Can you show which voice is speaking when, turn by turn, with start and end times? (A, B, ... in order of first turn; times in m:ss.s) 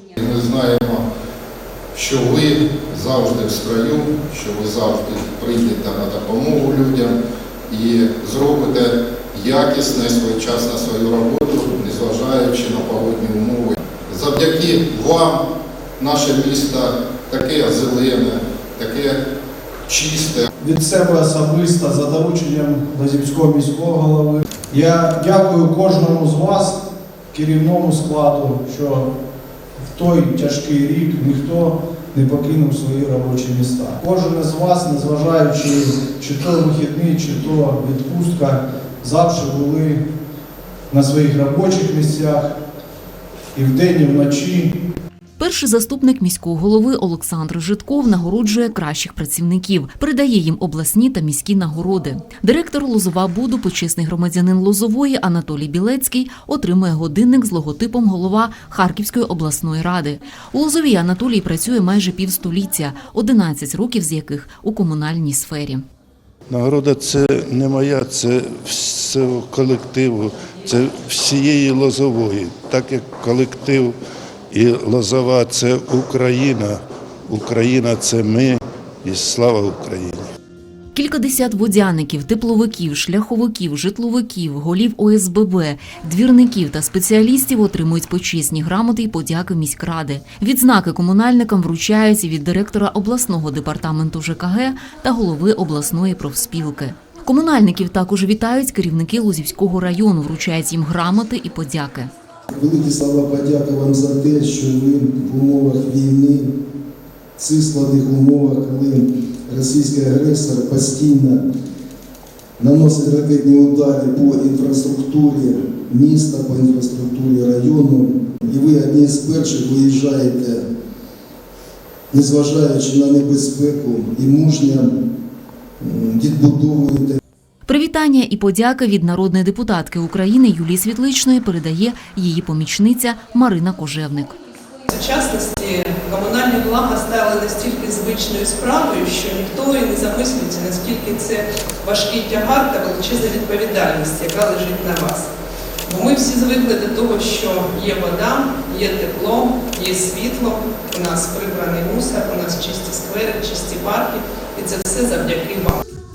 0:00.2-0:01.1 A
0:01.9-0:07.2 A
0:07.7-0:15.4 A
0:16.0-0:19.2 A
0:19.9-0:20.5 A
0:20.6-0:26.8 B
0:27.3-0:29.1 B
0:29.8-0:40.0 B
0:40.9-0:42.5 B
0:43.6-0:44.7 B
0:45.4-1:05.8 C
1:06.5-1:14.0 D
1:14.5-1:20.2 D
1:20.9-1:42.1 C
1:42.5-1:46.5 E
1:47.4-1:51.4 E
1:52.6-2:00.6 E
2:02.1-2:04.9 E
2:05.8-2:07.2 E
2:07.7-2:14.4 C
2:14.9-2:25.3 F
2:25.9-2:35.8 F